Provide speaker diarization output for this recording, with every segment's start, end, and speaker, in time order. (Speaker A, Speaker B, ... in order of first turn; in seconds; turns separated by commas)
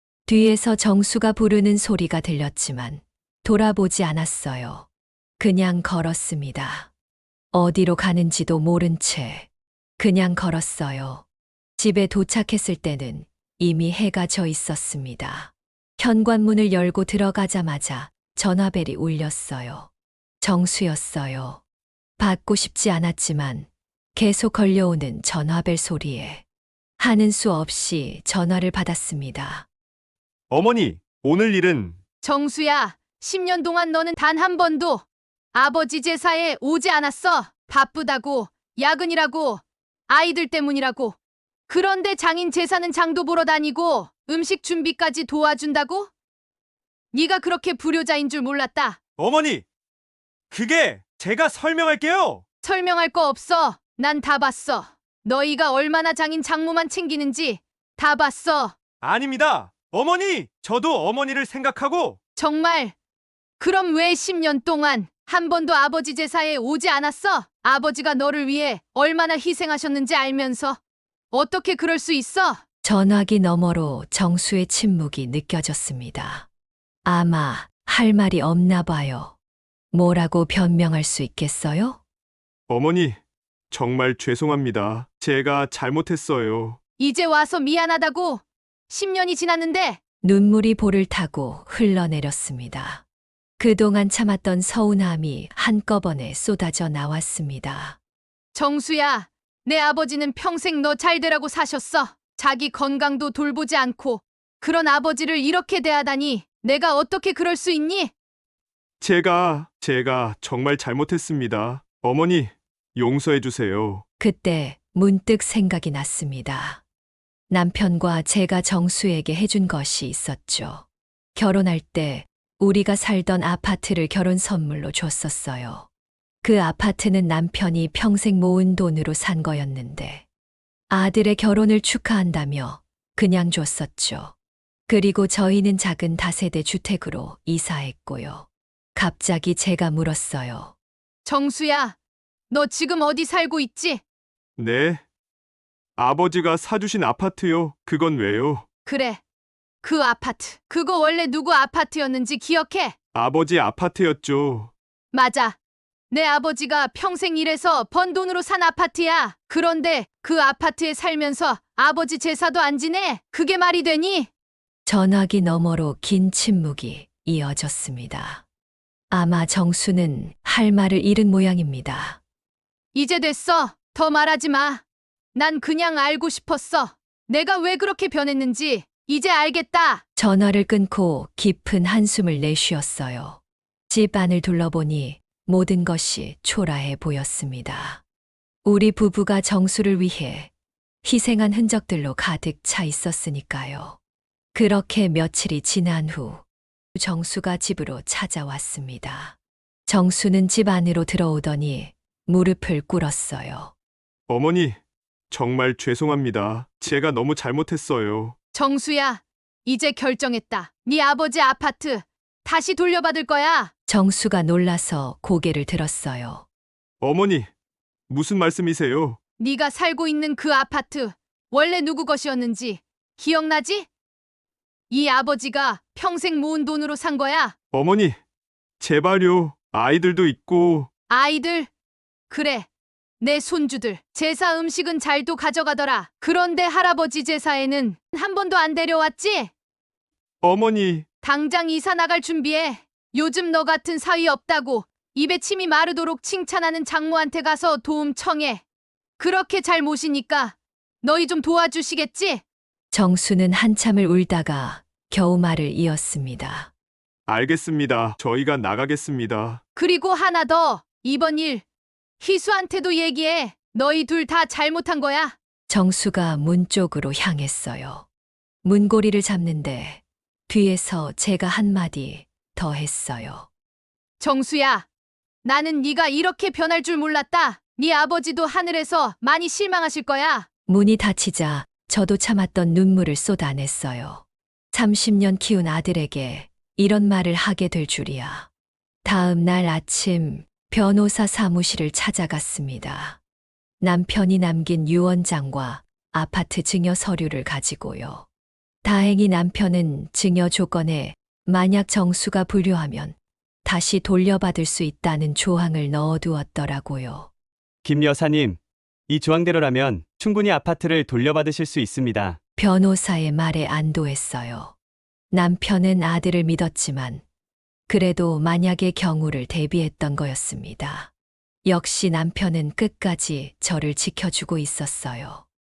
Speaker A: 0.3-4.9, Speaker A: 5.4-6.9, Speaker A: 7.5-9.5, Speaker A: 10.0-11.2, Speaker A: 11.8-19.9, Speaker A: 20.4-21.6, Speaker A: 22.2-26.4, Speaker A: 27.0-29.7, Speaker B: 30.5-32.0, Speaker C: 32.2-41.2, Speaker C: 41.7-46.1, Speaker C: 47.1-49.0, Speaker B: 49.2-49.6, Speaker B: 50.5-52.4, Speaker C: 52.6-58.8, Speaker B: 59.0-62.2, Speaker C: 62.4-63.0, Speaker C: 63.6-70.8, Speaker C: 71.3-72.6, Speaker A: 72.8-76.5, Speaker A: 77.0-79.4, Speaker A: 79.9-82.0, Speaker B: 82.7-83.2, Speaker B: 83.7-86.8, Speaker C: 87.0-90.0, Speaker A: 90.2-93.0, Speaker A: 93.6-98.0, Speaker C: 98.5-108.1, Speaker B: 109.0-114.0, Speaker A: 114.2-116.8, Speaker A: 117.5-125.9, Speaker A: 126.4-130.2, Speaker A: 130.9-134.3, Speaker A: 134.9-140.7, Speaker C: 141.2-142.0, Speaker C: 142.5-144.0, Speaker B: 144.6-145.0, Speaker B: 146.0-148.7, Speaker C: 148.9-149.2, Speaker C: 149.8-153.0, Speaker B: 153.1-154.7, Speaker C: 155.1-155.6, Speaker C: 156.1-164.3, Speaker A: 164.9-168.4, Speaker A: 169.1-172.2, Speaker C: 172.9-174.8, Speaker C: 175.3-180.0, Speaker A: 180.2-183.4, Speaker A: 183.9-188.0, Speaker A: 188.7-190.5, Speaker A: 191.0-194.0, Speaker A: 194.5-196.4, Speaker A: 196.9-203.7, Speaker B: 204.3-204.8, Speaker B: 205.3-208.4, Speaker C: 208.5-213.7, Speaker A: 213.9-216.4, Speaker B: 217.0-217.5, Speaker B: 218.1-219.2, Speaker C: 219.4-223.9, Speaker C: 224.9-227.6, Speaker B: 227.7-228.2, Speaker B: 228.8-230.9, Speaker C: 231.1-231.7, Speaker C: 232.3-232.7, Speaker C: 233.2-239.5, Speaker B: 240.4-241.1, Speaker C: 241.2-248.6, Speaker C: 249.2-252.4, Speaker A: 252.9-256.7, Speaker B: 257.3-259.6, Speaker C: 259.8-261.6, Speaker C: 262.2-265.4, Speaker A: 265.7-268.1, Speaker A: 268.6-273.5, Speaker C: 274.2-274.9, Speaker C: 275.4-280.5, Speaker A: 280.7-288.5, Speaker A: 289.0-293.2, Speaker A: 293.8-298.3, Speaker A: 298.8-307.3, Speaker D: 307.8-312.4, Speaker A: 312.6-314.7, Speaker A: 315.3-317.2, Speaker A: 317.9-321.1, Speaker A: 321.6-325.4